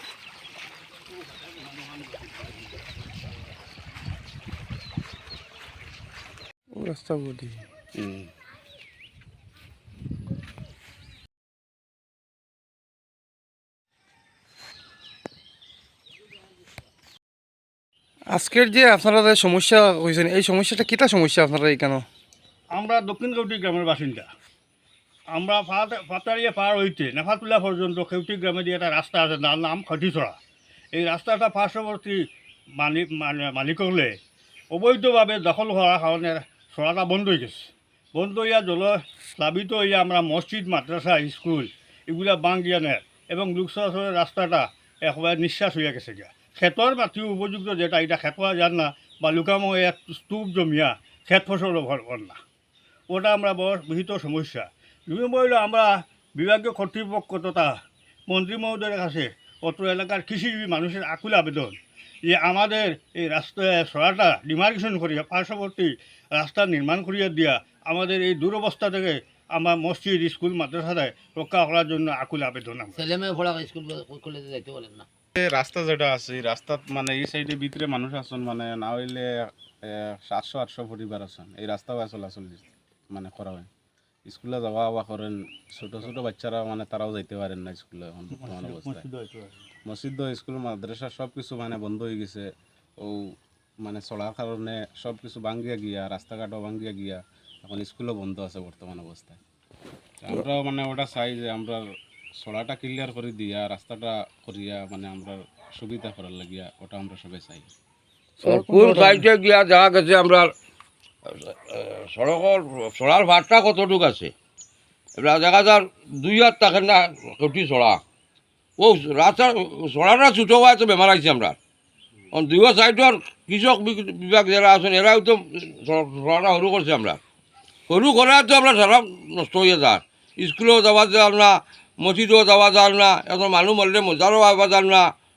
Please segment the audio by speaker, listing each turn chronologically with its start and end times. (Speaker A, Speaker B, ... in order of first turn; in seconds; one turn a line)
Speaker A: 6.7-7.6
Speaker B: 7.9-8.3
Speaker A: 18.3-22.1
Speaker C: 22.7-24.3
Speaker C: 25.3-30.4
Speaker C: 30.9-32.2
Speaker C: 32.8-34.2
Speaker C: 34.7-52.4
Speaker C: 53.1-73.1
Speaker D: 73.0-75.0
Speaker B: 75.3-79.3
Speaker B: 79.8-83.7
Speaker B: 84.3-89.0
Speaker C: 88.3-89.6
Speaker B: 89.8-92.5
Speaker B: 93.0-93.3
Speaker B: 93.8-99.4
Speaker B: 100.2-101.8
Speaker B: 102.4-107.7
Speaker E: 108.4-110.5
Speaker A: 108.4-109.2
Speaker E: 111.3-114.3
Speaker E: 115.2-118.0
Speaker E: 118.8-121.6
Speaker E: 122.3-127.2
Speaker E: 127.9-135.1